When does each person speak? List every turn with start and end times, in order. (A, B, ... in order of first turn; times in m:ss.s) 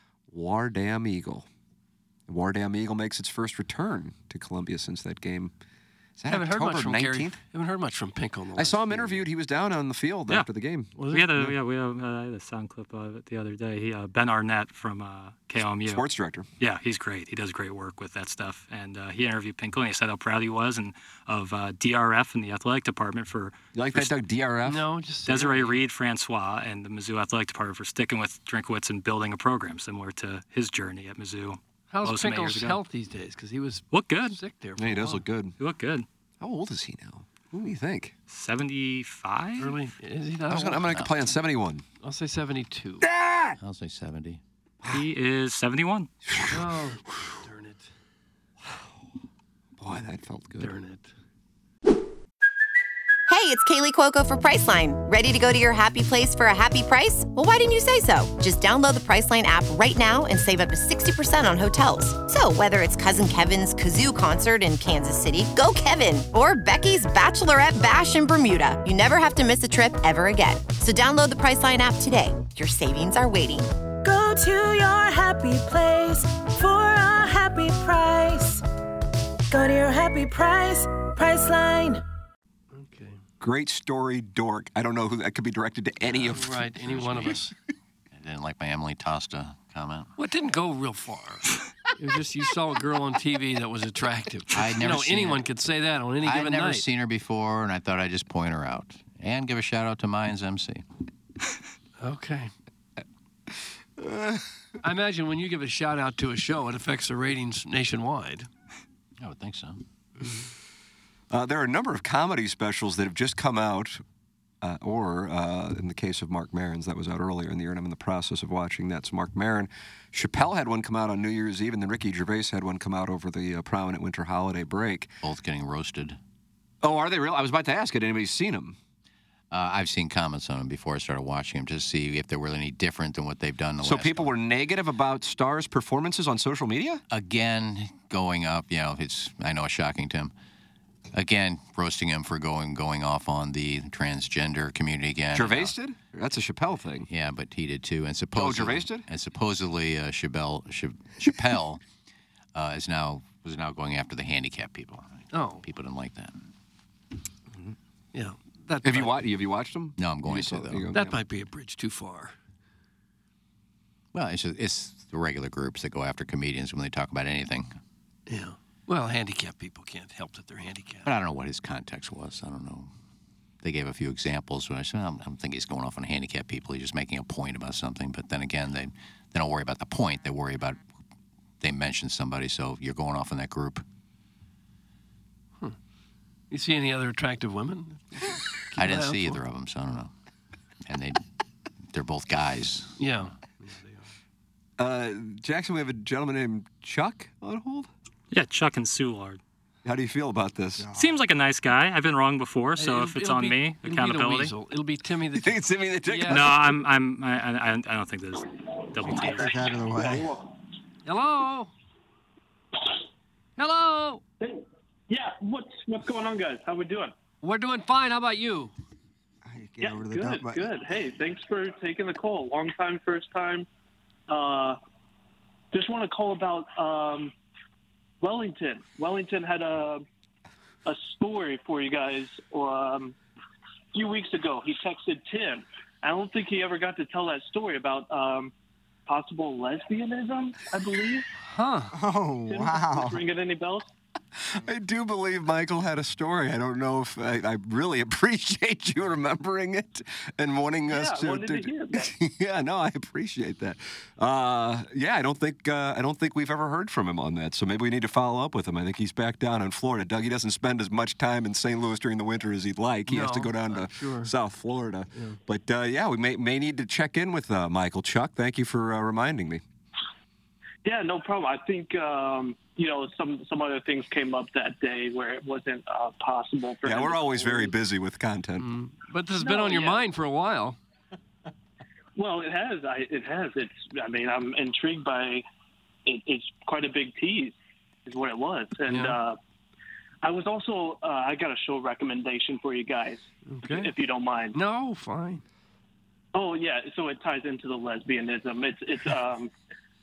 0:00.3-0:01.5 A
0:02.3-0:05.5 A
0:06.2-0:07.4 A
0:06.3-0:09.3 B
0:08.6-0:11.0 A
0:11.0-0:11.6 B
0:11.1-0:16.0 C
0:15.8-0:16.5 A
0:16.6-0:24.1 C
0:23.8-0:24.9 A
0:24.6-0:25.8 B
0:25.3-0:32.8 C
0:31.9-0:35.2 B
0:33.9-0:34.4 C
0:34.8-0:35.6 A
0:35.6-0:36.1 C
0:36.4-0:38.1 A
0:38.3-0:39.8 C
0:39.6-0:41.0 B
0:40.5-0:41.8 A
0:42.0-0:43.0 B
0:43.0-0:43.6 A
0:43.6-0:44.4 D
0:44.9-0:46.1 C
0:46.3-0:46.7 A
0:46.5-0:47.9 B
0:49.8-0:50.7 A
0:50.6-0:51.1 B
0:53.3-1:13.7 E
1:14.0-1:18.6 F
1:19.5-1:22.0 F
1:22.7-1:23.2 B
1:23.4-1:27.4 A
1:26.3-1:27.5 B
1:27.0-1:27.4 D
1:28.1-1:30.1 D
1:30.2-1:31.4 B
1:32.0-1:36.9 B
1:34.5-1:35.5 D
1:36.2-1:40.8 D
1:42.0-1:42.5 B
1:44.0-1:44.4 A
1:44.8-1:48.5 B
1:49.2-1:49.8 D
1:51.3-1:54.0 A
1:54.6-2:05.1 A
2:05.2-2:06.2 D
2:06.8-2:08.8 A
2:09.5-2:14.3 D
2:13.8-2:17.0 A
2:17.1-2:20.3 D
2:21.1-2:25.8 D
2:25.3-2:27.1 A
2:27.1-2:31.8 D
2:28.3-2:29.1 A
2:32.5-2:36.4 D
2:35.3-2:35.6 B
2:38.1-2:39.2 B
2:38.8-2:41.2 A
2:40.0-2:40.9 D
2:40.9-2:42.3 B
2:44.1-2:47.7 D
2:48.3-2:51.1 B
2:51.1-2:52.9 D
2:53.6-3:00.8 D
3:01.6-3:03.8 D
3:06.5-3:09.4 B
3:08.8-3:10.1 D
3:10.9-3:11.2 D
3:11.9-3:13.0 D
3:13.0-3:14.1 B
3:14.8-3:17.9 A
3:18.3-3:19.4 C
3:19.8-3:20.9 A
3:20.8-3:21.2 G
3:20.9-3:24.5 C
3:22.8-3:26.6 B
3:25.4-3:26.8 A
3:26.3-3:29.6 C
3:29.0-3:30.3 G
3:30.0-3:30.5 H
3:31.0-3:31.7 B
3:33.6-3:34.2 B
3:34.4-3:37.1 H
3:37.4-3:38.7 B
3:39.5-3:40.7 G
3:39.8-3:43.7 H
3:44.3-3:44.8 H
3:45.7-3:47.3 H
3:48.2-3:50.0 H
3:50.8-3:53.2 H
3:53.9-3:58.5 H
3:59.1-4:01.3 H
4:01.5-4:02.0 B
4:01.9-4:03.2 G
4:02.5-4:03.9 H
4:04.5-4:29.6 A
4:10.9-4:12.1 H
4:23.1-4:24.3 B
4:30.8-4:37.8 H
4:36.8-4:38.7 A
4:38.6-4:40.8 B
4:39.4-4:40.1 H
4:42.2-4:45.5 H
4:46.0-4:49.4 H
4:48.9-4:49.2 B
4:50.2-4:54.6 H
4:53.5-4:53.9 B
4:54.5-4:55.4 B
4:56.3-4:59.5 H